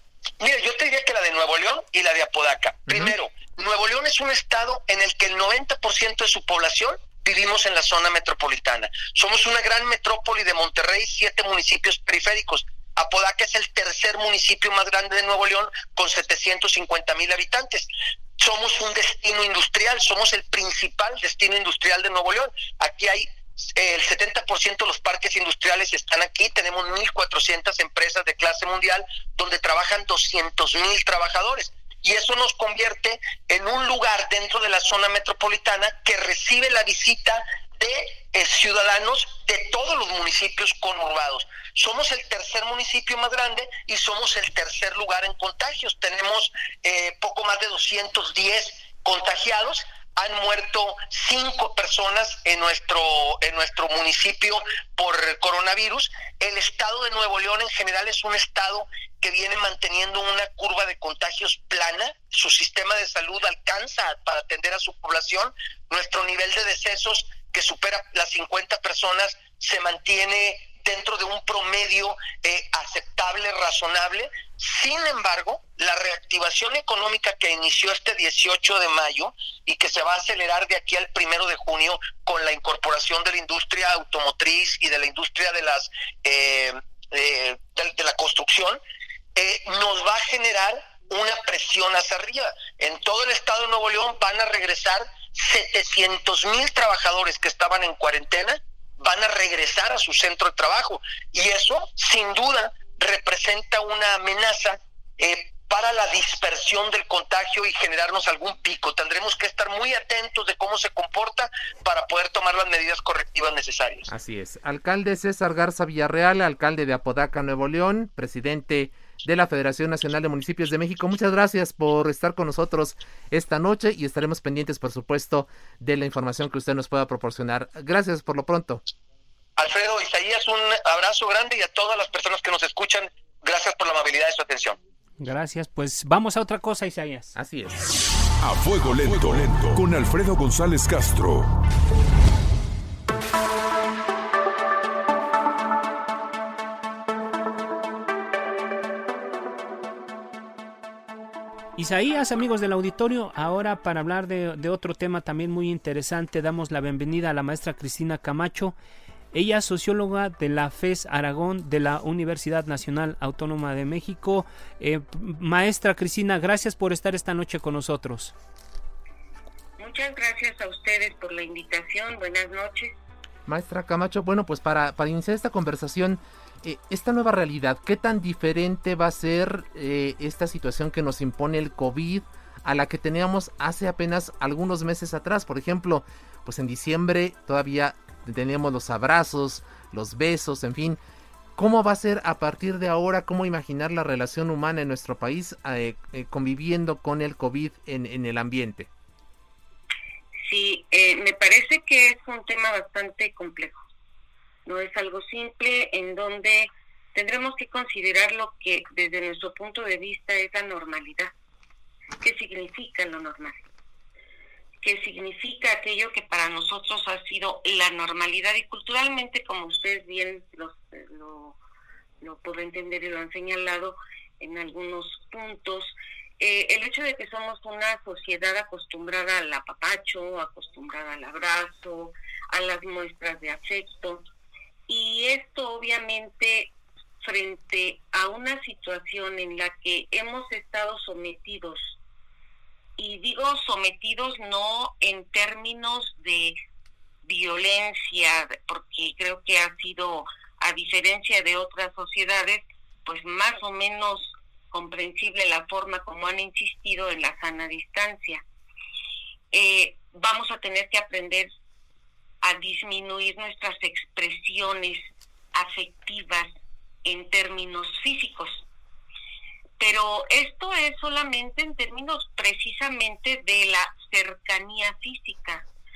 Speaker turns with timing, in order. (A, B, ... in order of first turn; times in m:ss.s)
0:00.4-1:28.8 A
0:02.9-0:03.1 B
1:29.4-1:54.1 A
1:54.1-2:08.8 B
2:09.6-2:14.8 A
2:15.2-2:17.3 C
2:17.4-2:17.9 B
2:18.4-2:21.5 D
2:31.8-2:38.7 C
2:39.3-2:48.3 C
2:49.8-2:53.0 E
2:53.4-3:11.0 B
3:11.6-3:18.9 B
3:20.4-3:23.8 E
3:24.6-3:31.3 E
3:32.2-3:33.6 E
3:34.8-3:41.6 E
3:42.2-3:54.2 E
3:54.9-4:02.0 E
4:03.0-4:06.6 E
4:07.2-4:18.4 E
4:19.5-4:21.5 E
4:22.4-4:26.5 E
4:27.0-4:28.6 E
4:29.8-4:35.7 E